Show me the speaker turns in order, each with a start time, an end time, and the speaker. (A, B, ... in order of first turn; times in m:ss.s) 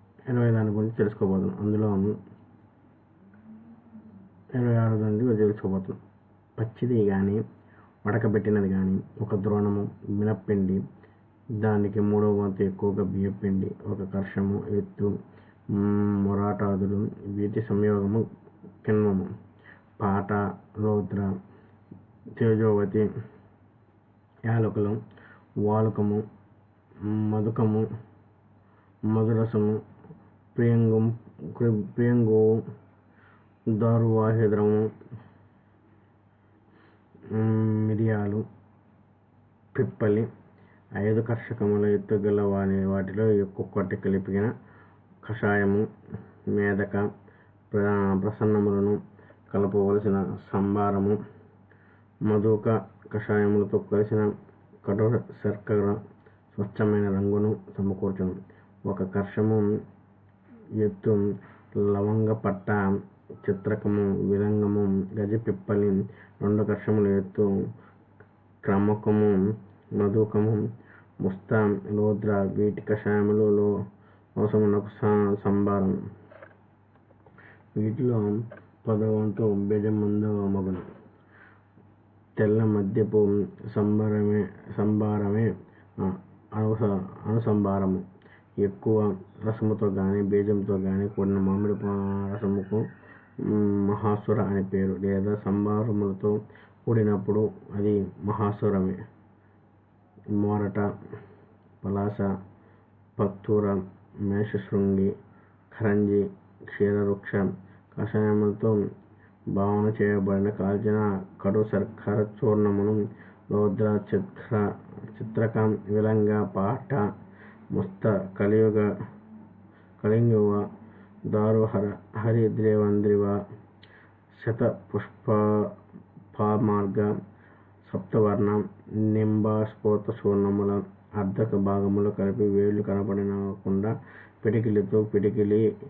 0:00.3-0:02.2 A
0:04.5-0:06.0 A
0:06.6-0:07.4 A
0:08.0-0:10.8 A
0:11.6-0:15.2 A
0:15.7-0:18.3 A
0:18.8-0:19.3 A
0:20.0-0:21.4 A
0:22.4-0:23.1 A
0:24.4-0:25.0 A
0:25.6-0:26.3 A
0:27.0-0:27.9 A
0:29.1-0:29.8 A
0:30.5-0:32.6 A
0:33.7-0:34.9 A
0:37.3-0:38.4 A
0:39.7-0:40.3 A
0:41.0-0:44.5 A
0:45.2-0:45.9 A
0:46.5-0:47.1 A
0:47.7-0:51.2 A
0:52.2-0:59.8 A
1:00.8-1:07.5 A
1:08.6-1:10.6 A
1:11.2-1:13.7 A
1:14.4-1:16.0 A
1:17.7-1:20.9 A
1:22.4-1:28.0 A
1:28.6-1:32.8 A
1:33.4-1:39.0 A
1:40.3-1:40.9 A
1:41.8-1:42.3 A
1:43.2-1:45.1 A
1:45.7-1:48.8 A
1:49.5-1:57.1 A
1:57.7-1:58.9 A
2:00.0-2:00.7 A
2:01.2-2:03.4 A
2:04.3-2:05.7 A
2:06.3-2:07.1 A
2:07.8-2:15.7 A